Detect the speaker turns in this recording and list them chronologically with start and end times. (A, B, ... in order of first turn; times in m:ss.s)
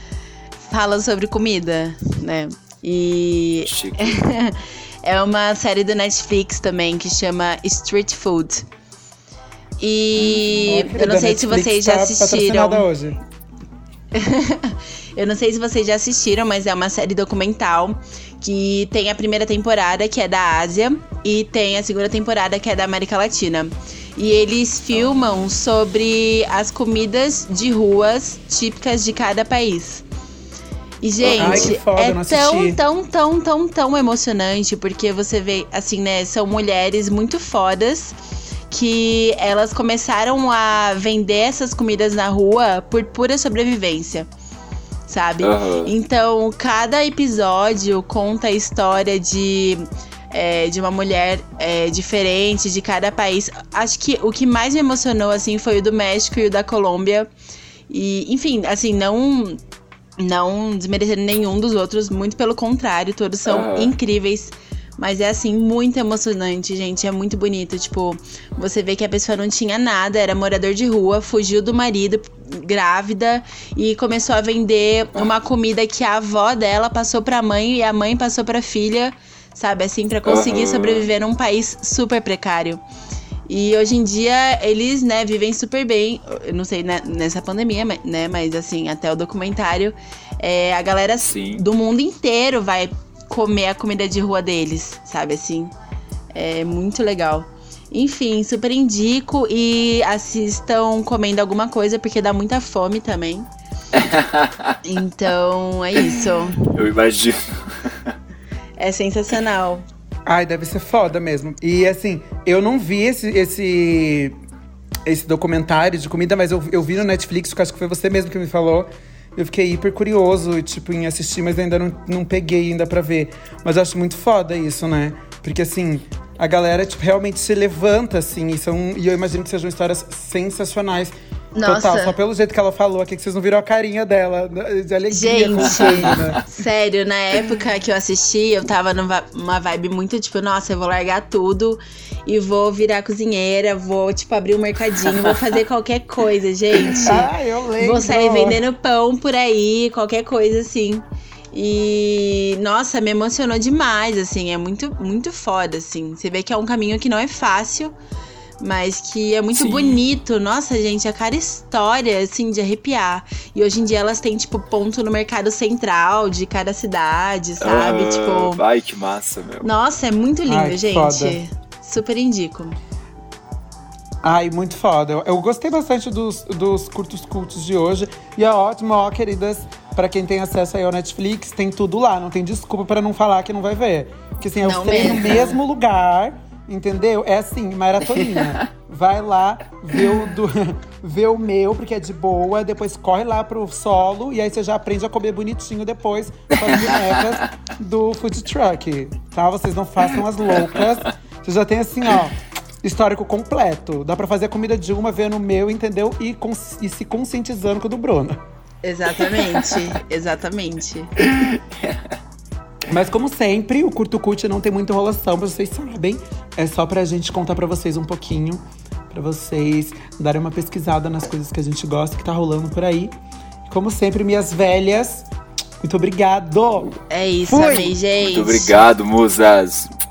0:00.6-0:08.6 A
0:03.6-0:04.2 B
0:09.8-0:12.9 A
0:10.3-0:13.2 C
0:14.1-0:30.0 A
0:31.0-0:38.2 A
0:31.2-0:31.8 B
0:31.4-0:32.8 C
0:38.7-0:44.3 A
0:45.1-0:57.3 A
0:45.4-0:45.9 B
0:57.9-0:59.6 A
1:00.2-1:22.8 A
1:03.4-1:03.9 B
1:20.2-1:21.1 B
1:23.5-1:35.7 A
1:31.2-1:31.6 B
1:36.3-1:43.5 A
1:43.9-1:44.8 B
1:44.8-1:46.6 A
1:46.6-1:48.1 B
1:48.8-1:49.8 A
1:50.2-1:54.4 C
1:55.0-2:11.1 C
2:11.6-2:12.2 A
2:11.6-2:16.4 C
2:15.1-2:37.9 A
2:15.6-2:16.3 B
2:26.9-2:28.6 C
2:38.6-2:48.6 A
2:39.5-2:40.0 B
2:47.6-2:49.7 B
2:49.6-2:52.8 A
2:50.4-2:51.4 C
2:54.2-3:28.4 C
3:04.6-3:05.6 A
3:16.6-3:17.2 B
3:28.8-3:31.1 A
3:29.4-3:29.8 B
3:31.2-3:32.0 B
3:32.9-3:43.1 C
3:43.7-3:45.3 C
3:45.8-3:46.9 C
3:47.1-3:48.8 A
3:47.5-3:48.0 C
3:48.2-3:49.9 B